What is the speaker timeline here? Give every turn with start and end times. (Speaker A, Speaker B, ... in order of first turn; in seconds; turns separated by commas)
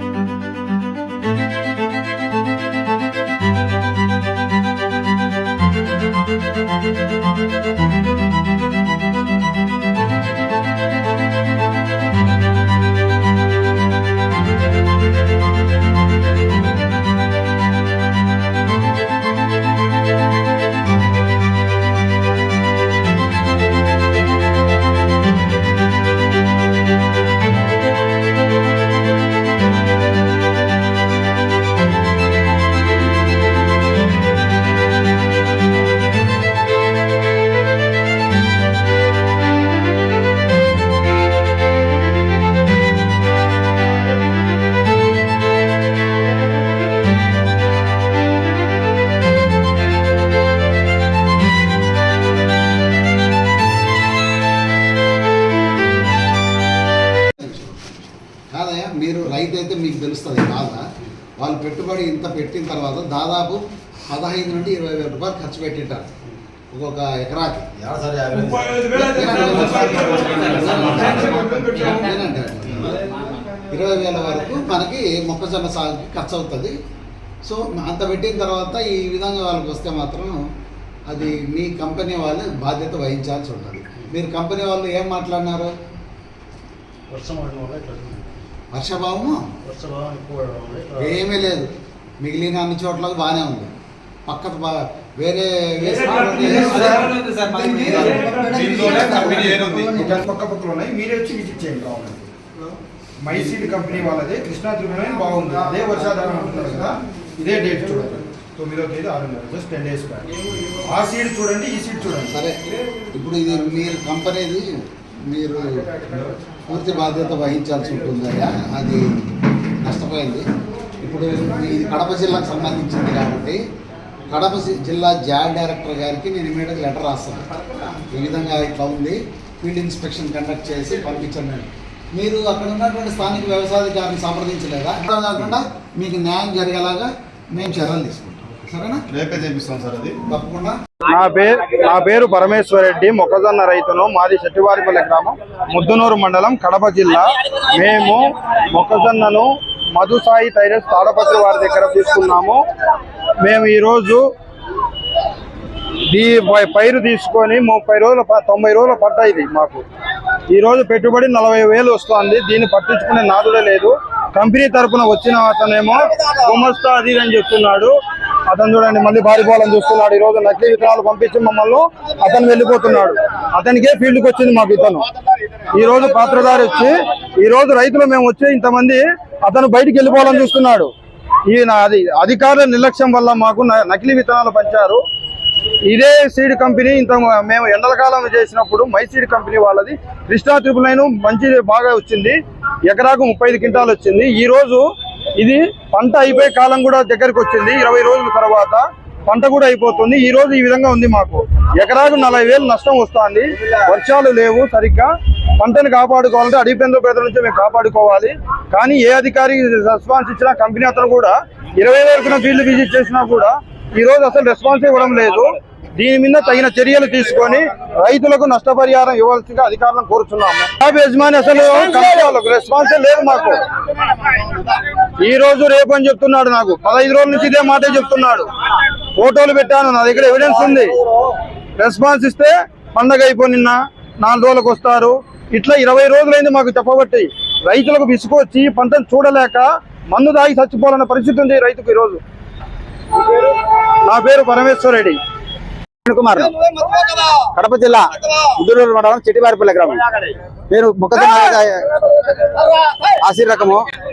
Speaker A: 57.3-57.9, Speaker A: 58.5-60.9, Speaker A: 61.4-66.1, Speaker A: 66.7-67.7, Speaker B: 67.8-71.6, Speaker A: 68.8-73.0, Speaker C: 71.3-71.9, Speaker A: 73.6-76.8, Speaker A: 77.4-80.4, Speaker A: 81.1-85.7, Speaker B: 87.1-88.5, Speaker A: 88.7-89.5, Speaker B: 89.7-91.3, Speaker A: 91.0-93.7, Speaker A: 94.3-97.2, Speaker D: 96.6-99.3, Speaker C: 96.7-97.1, Speaker B: 97.2-99.8, Speaker E: 98.5-99.8, Speaker C: 99.0-102.3, Speaker C: 103.2-112.4, Speaker A: 112.3-119.3, Speaker A: 119.8-120.5, Speaker A: 121.0-123.6, Speaker A: 124.2-139.2, Speaker E: 139.1-140.2, Speaker A: 140.2-140.8, Speaker C: 141.1-152.6, Speaker C: 153.4-154.3, Speaker C: 156.0-159.8, Speaker C: 160.5-175.1, Speaker C: 175.7-180.9, Speaker C: 181.5-185.0, Speaker C: 185.9-223.7, Speaker C: 224.4-231.1, Speaker C: 231.8-242.2, Speaker C: 243.2-245.2, Speaker D: 246.1-253.8